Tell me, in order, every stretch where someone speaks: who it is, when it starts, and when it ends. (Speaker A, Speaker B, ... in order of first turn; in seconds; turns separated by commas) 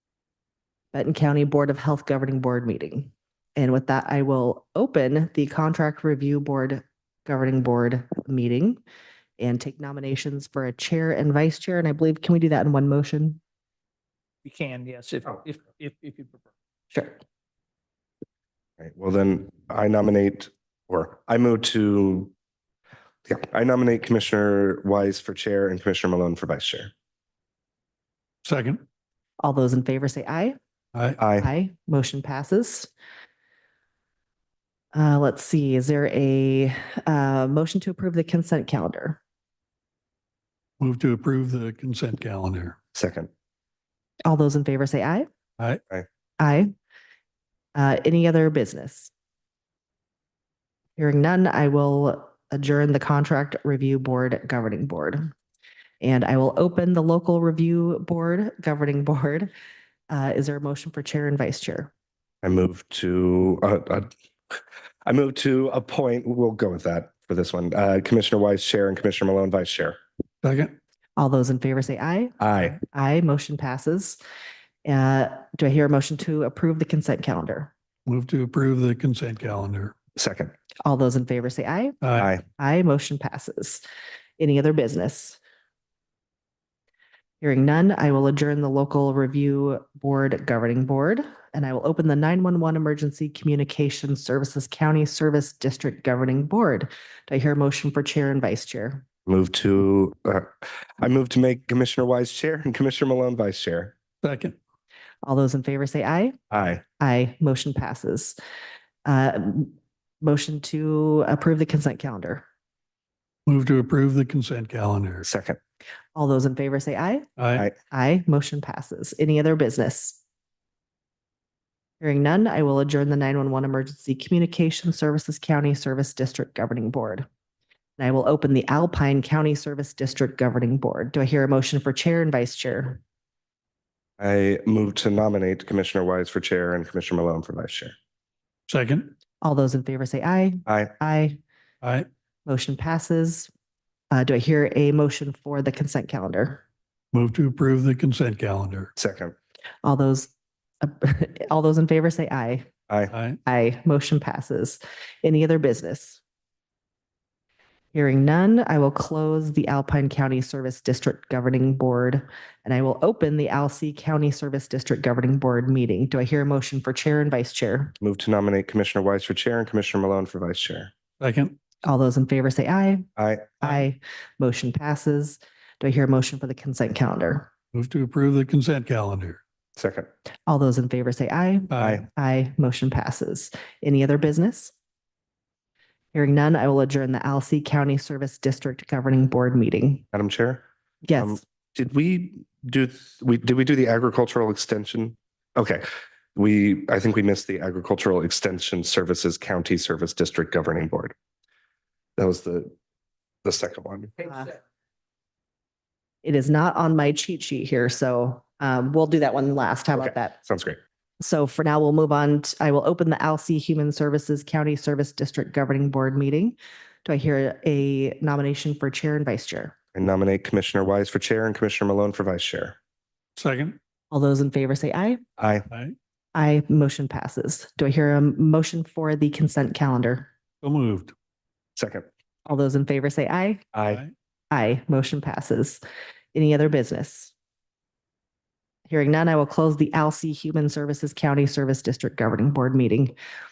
Speaker A: 0.9-8.8, Speaker A: 9.4-13.4, Speaker B: 14.4-16.5, Speaker A: 16.9-17.2, Speaker C: 18.8-22.3, Speaker C: 23.3-26.9, Speaker D: 28.4-28.8, Speaker A: 29.4-30.6, Speaker D: 30.9-31.2, Speaker C: 31.2-31.5, Speaker A: 31.4-32.9, Speaker A: 34.9-39.2, Speaker D: 40.8-42.8, Speaker C: 42.9-43.3, Speaker A: 44.2-45.3, Speaker A: 46.4-46.7, Speaker A: 47.8-49.1, Speaker A: 51.0-55.3, Speaker A: 56.0-59.5, Speaker A: 60.1-61.9, Speaker C: 62.4-70.0, Speaker D: 70.4-70.7, Speaker A: 71.2-74.2, Speaker C: 72.4-72.8, Speaker A: 74.8-77.7, Speaker D: 78.1-80.0, Speaker C: 80.2-80.5, Speaker A: 80.8-82.0, Speaker D: 82.0-82.3, Speaker C: 82.2-82.4, Speaker A: 82.6-83.8, Speaker A: 84.4-85.4, Speaker A: 87.4-99.0, Speaker C: 99.3-100.5, Speaker C: 101.0-104.0, Speaker D: 104.2-104.6, Speaker A: 105.2-106.4, Speaker C: 106.5-106.8, Speaker A: 107.0-108.4, Speaker A: 109.0-112.4, Speaker D: 113.5-115.3, Speaker C: 115.2-115.6, Speaker A: 116.2-117.3, Speaker D: 117.4-117.7, Speaker A: 117.8-120.2, Speaker A: 122.0-127.3, Speaker A: 128.0-133.0, Speaker C: 134.2-137.9, Speaker D: 138.7-139.1, Speaker A: 139.4-141.4, Speaker C: 140.7-140.9, Speaker D: 141.8-142.1, Speaker A: 142.5-143.5, Speaker A: 144.1-146.6, Speaker D: 147.1-148.9, Speaker C: 149.0-149.3, Speaker A: 149.8-152.7, Speaker D: 153.1-153.4, Speaker A: 153.5-156.2, Speaker A: 157.9-167.9, Speaker C: 168.0-170.9, Speaker D: 171.2-171.6, Speaker A: 171.8-173.1, Speaker C: 173.2-173.8, Speaker A: 173.6-177.5, Speaker D: 177.7-179.4, Speaker C: 179.8-180.1, Speaker A: 180.5-184.7, Speaker D: 181.7-182.0, Speaker A: 186.1-190.0, Speaker C: 190.1-190.6, Speaker A: 191.0-191.4, Speaker C: 191.2-201.1, Speaker C: 202.2-202.7, Speaker C: 203.4-204.4, Speaker A: 206.2-210.4, Speaker C: 209.9-210.8, Speaker A: 211.2-219.8, Speaker C: 219.9-222.8, Speaker D: 223.4-223.8, Speaker A: 224.1-225.2, Speaker C: 225.4-225.7, Speaker D: 225.7-226.0, Speaker A: 226.3-230.3, Speaker D: 230.6-231.1, Speaker C: 231.8-232.1, Speaker A: 232.5-233.7, Speaker C: 233.7-234.0, Speaker A: 234.5-235.8, Speaker A: 236.3-237.3, Speaker A: 238.9-243.2